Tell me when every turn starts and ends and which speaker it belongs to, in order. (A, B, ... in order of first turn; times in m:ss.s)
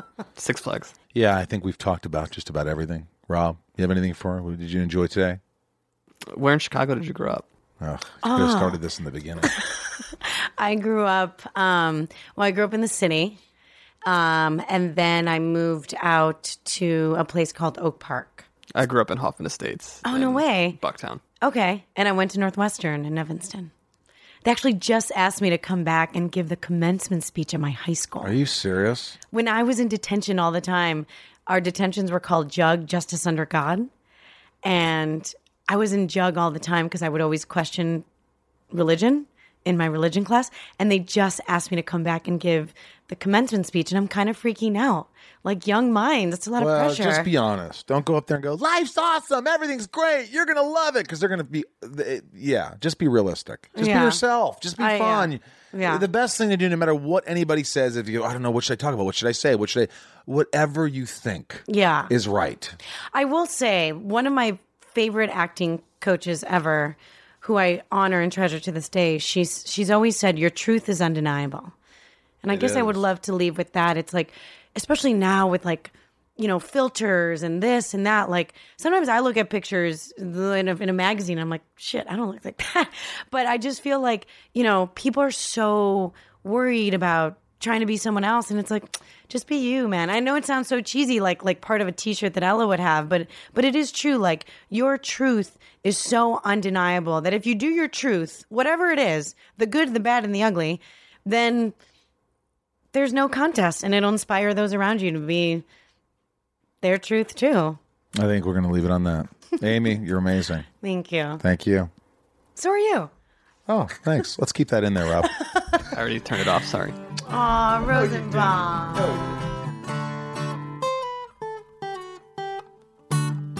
0:00.4-0:00.9 A
0:01.1-0:05.4 B
0:06.3-0:07.4 A
0:07.8-0:09.5 B
0:08.2-0:08.8 C
0:10.2-0:13.4 C
0:14.0-0:18.5 C
0:18.7-0:21.2 A
0:20.0-0:20.8 C
0:21.4-0:23.7 C
0:24.4-0:28.3 C
0:28.2-0:29.2 B
0:29.3-0:33.9 C
0:34.6-0:38.0 C
0:38.7-0:47.3 C
0:46.6-1:02.8 B
0:53.8-0:54.2 C
0:54.8-0:56.0 C
1:01.7-1:02.1 C
1:03.1-1:11.7 C
1:12.4-1:41.7 C
1:12.5-1:13.0 B
1:42.9-1:45.6 C
1:46.8-1:47.8 C
1:48.1-1:50.6 B
1:50.8-1:51.4 C
1:51.4-1:51.9 B
1:52.6-1:53.1 C
1:53.7-1:55.3 B
1:55.3-1:55.6 C
1:55.9-1:57.0 A
1:57.3-1:59.2 C
1:57.9-1:59.3 B